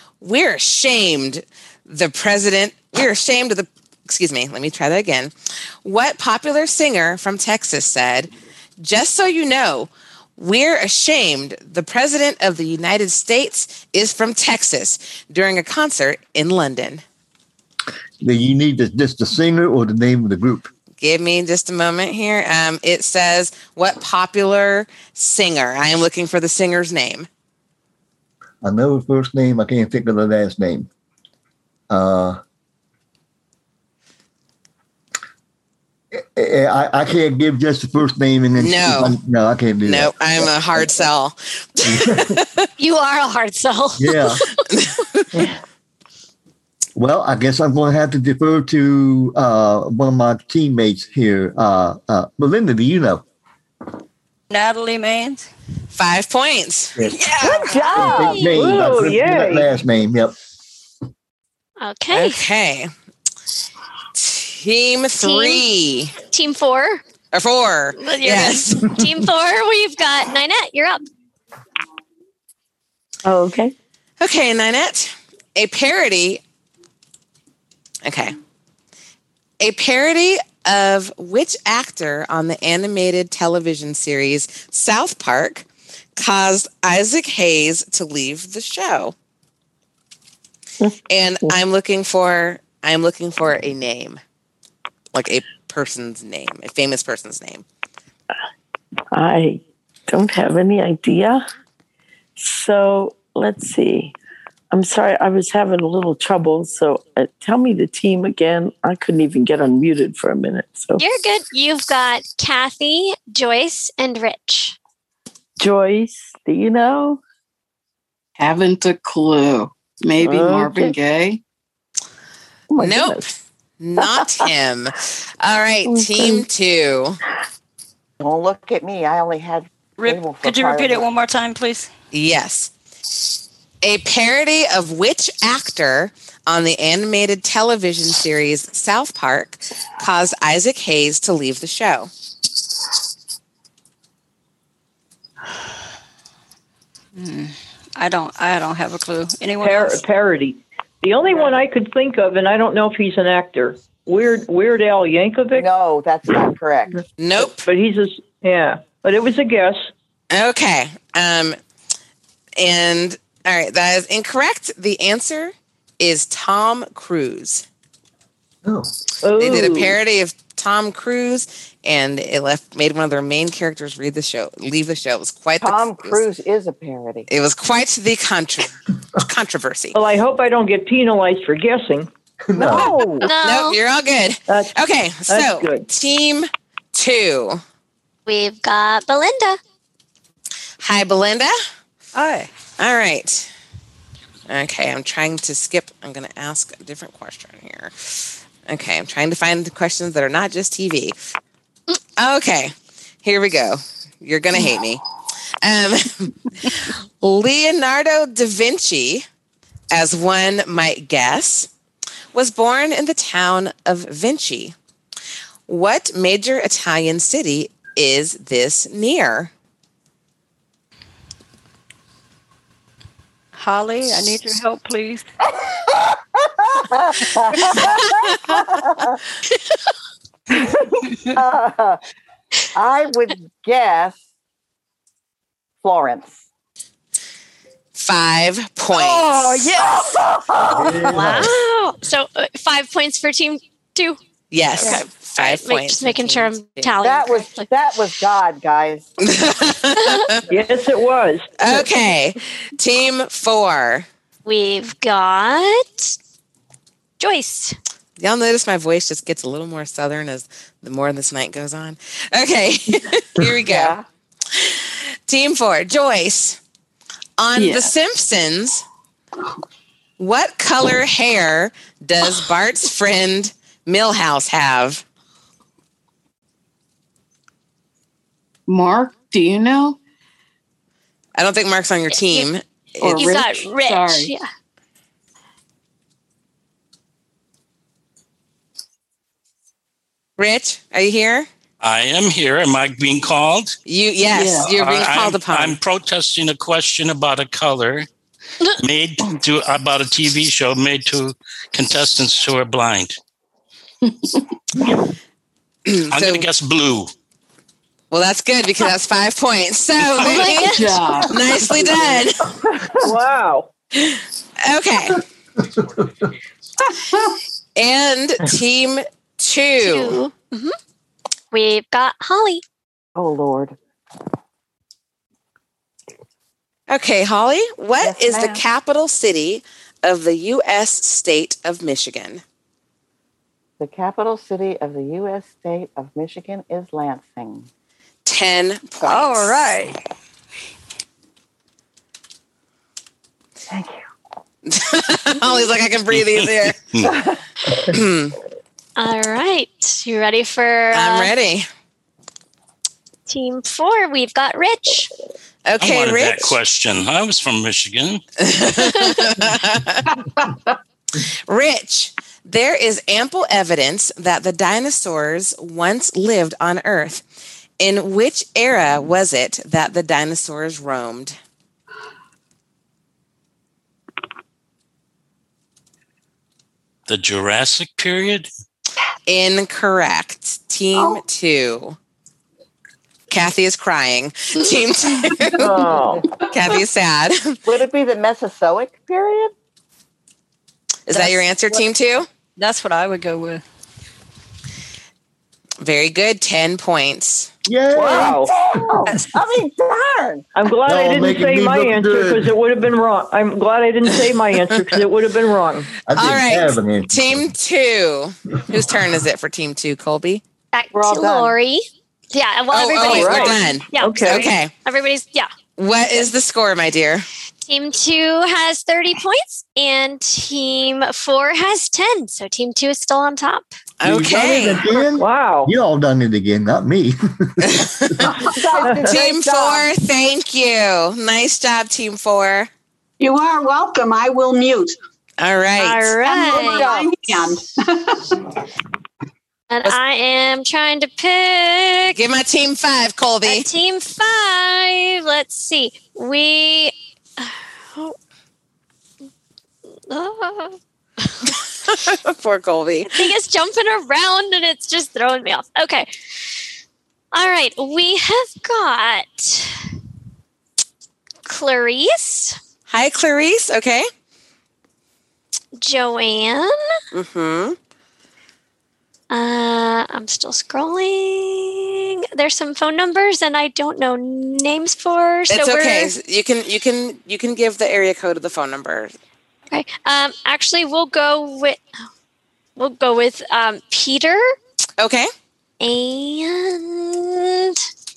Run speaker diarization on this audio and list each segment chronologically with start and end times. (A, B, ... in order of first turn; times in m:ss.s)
0:00.2-0:05.3 A
0:05.8-0:17.0 A
0:18.2-0:20.7 B
0:21.0-0:27.3 A
0:28.6-0:30.9 B
0:31.9-0:32.4 B
0:36.1-0:41.1 B
0:38.6-0:39.2 A
0:39.8-0:42.6 A
0:41.8-0:42.4 B
0:42.8-0:44.5 C
0:44.0-0:44.4 B
0:44.7-0:45.2 A
0:47.0-0:53.2 B
0:54.5-0:55.4 D
0:55.9-0:57.0 A
0:57.1-0:57.8 D
0:57.4-0:58.3 E
0:57.6-0:58.8 C
0:57.8-1:00.3 B
0:58.6-0:59.7 F
1:01.8-1:02.4 C
1:02.1-1:02.9 A
1:04.1-1:06.1 A
1:05.2-1:05.6 C
1:06.2-1:07.0 C
1:07.3-1:09.0 A
1:08.0-1:11.0 C
1:13.2-1:13.7 G
1:14.2-1:16.4 A
1:18.0-1:18.4 A
1:19.6-1:25.6 A
1:26.2-1:29.1 A
1:31.1-1:34.2 A
1:35.1-1:37.6 A
1:39.1-1:41.4 G
1:42.4-1:44.1 G
1:44.7-1:51.0 G
1:51.0-1:54.8 C
1:55.6-1:57.2 G
1:58.4-2:01.4 H
2:00.2-2:00.9 G
2:02.7-2:03.3 G
2:02.8-2:07.2 A
2:05.9-2:06.4 G
2:08.2-2:11.1 E
2:10.0-2:11.9 D
2:12.1-2:12.7 A
2:13.8-2:22.1 A
2:27.2-2:30.0 D
2:29.6-2:35.7 F
2:35.5-2:37.0 E
2:37.2-2:37.7 A
2:37.6-2:39.9 F
2:40.3-2:41.6 A
2:42.6-2:47.6 A
2:48.6-2:48.9 B
2:49.2-2:50.0 F
2:49.4-2:56.2 A
2:55.6-2:57.3 E
2:57.3-3:00.0 A
2:59.9-3:02.1 F
3:02.4-3:02.9 B
3:02.6-3:03.3 E
3:03.2-3:03.8 C
3:03.4-3:07.6 A
3:05.3-3:05.8 F
3:08.3-3:09.6 C
3:10.8-3:11.5 A
3:12.1-3:12.5 D
3:12.8-3:13.5 A
3:14.5-3:18.1 A
3:18.6-3:21.2 A
3:22.2-3:25.0 A
3:25.6-3:29.2 A
3:29.9-3:31.7 A
3:32.3-3:34.7 A
3:35.7-3:39.5 A
3:43.6-3:45.2 D
3:46.6-3:49.2 E
3:51.3-3:52.0 E
3:52.7-3:54.2 E
3:55.8-3:56.4 E
3:58.0-3:59.7 A
3:59.1-4:00.1 E
4:00.7-4:01.4 E
4:00.9-4:04.2 C
4:04.5-4:07.0 A
4:04.7-4:07.7 C
4:07.0-4:09.1 E
4:09.2-4:10.4 A
4:10.5-4:11.8 F
4:11.6-4:14.0 A
4:14.4-4:16.1 C
4:17.2-4:17.8 C
4:18.2-4:24.0 A
4:23.6-4:24.0 E
4:24.5-4:26.6 A
4:27.4-4:28.8 A
4:27.6-4:27.9 H
4:30.2-4:35.0 A
4:38.7-4:40.0 H
4:41.4-4:43.4 A
4:42.1-4:42.5 C
4:43.0-4:44.3 H
4:43.1-4:44.5 C
4:50.4-4:51.5 A
4:51.8-4:53.8 I
4:53.9-4:55.8 A
4:54.3-4:54.7 H
4:54.7-4:58.1 I
4:58.8-5:03.2 I
5:05.9-5:06.4 A
5:06.1-5:07.1 I
5:08.1-5:12.4 A
5:10.2-5:11.2 C
5:10.5-5:11.3 H
5:13.0-5:13.7 F
5:13.9-5:15.2 A
5:17.8-5:20.2 A
5:19.8-5:20.8 C
5:21.5-5:22.6 C
5:23.2-5:23.8 E
5:26.9-5:32.4 A
5:28.0-5:28.6 E
5:33.8-5:37.7 E
5:38.2-5:39.7 A
5:39.0-5:40.0 D
5:43.7-5:44.0 E
5:44.6-5:46.8 A
5:46.1-5:47.1 I
5:47.0-5:47.4 E
5:47.9-5:48.3 A
5:49.0-5:51.3 C
5:50.9-5:51.7 A
5:53.3-5:55.1 C
5:55.6-5:56.5 A
5:55.8-5:58.2 I
5:58.4-6:00.0 A
5:58.8-5:59.2 C
6:01.5-6:07.2 A
6:07.8-6:11.4 A
6:17.1-6:18.5 I
6:19.3-6:22.0 A
6:23.3-6:25.8 A
6:25.6-6:26.2 F
6:26.4-6:27.6 A
6:27.6-6:29.5 E
6:31.1-6:32.3 A
6:32.6-6:33.6 D
6:35.8-6:37.5 A
6:37.6-6:39.0 B
6:37.9-6:38.5 F
6:38.0-6:40.4 E
6:40.5-6:45.9 F
6:40.8-6:42.5 B
6:46.1-6:47.5 B
6:46.1-6:50.4 A
6:50.7-6:55.5 C
6:50.9-6:51.6 E
6:52.7-6:54.7 A
6:53.0-6:54.4 F
6:55.8-6:57.2 A
6:57.7-7:03.7 C
7:04.0-7:05.0 A
7:04.0-7:08.3 B
7:05.2-7:05.7 F
7:07.6-7:12.7 A
7:08.4-7:09.9 E
7:08.8-7:09.2 F
7:13.2-7:15.0 J
7:15.4-7:16.2 A
7:15.8-7:17.0 C
7:16.3-7:17.4 E
7:16.3-7:18.4 J
7:19.7-7:22.2 C
7:22.1-7:23.7 A
7:23.4-7:28.1 C
7:30.1-7:30.8 C
7:31.9-7:33.3 A
7:33.1-7:36.1 C
7:37.3-7:39.7 C
7:41.4-7:42.6 C
7:42.9-7:44.1 A
7:45.8-7:46.7 C
7:47.1-7:47.8 A
7:49.3-7:56.1 C
7:55.5-7:59.1 A
7:59.7-8:01.8 C
8:02.8-8:04.5 C
8:05.0-8:05.3 A
8:05.8-8:07.8 C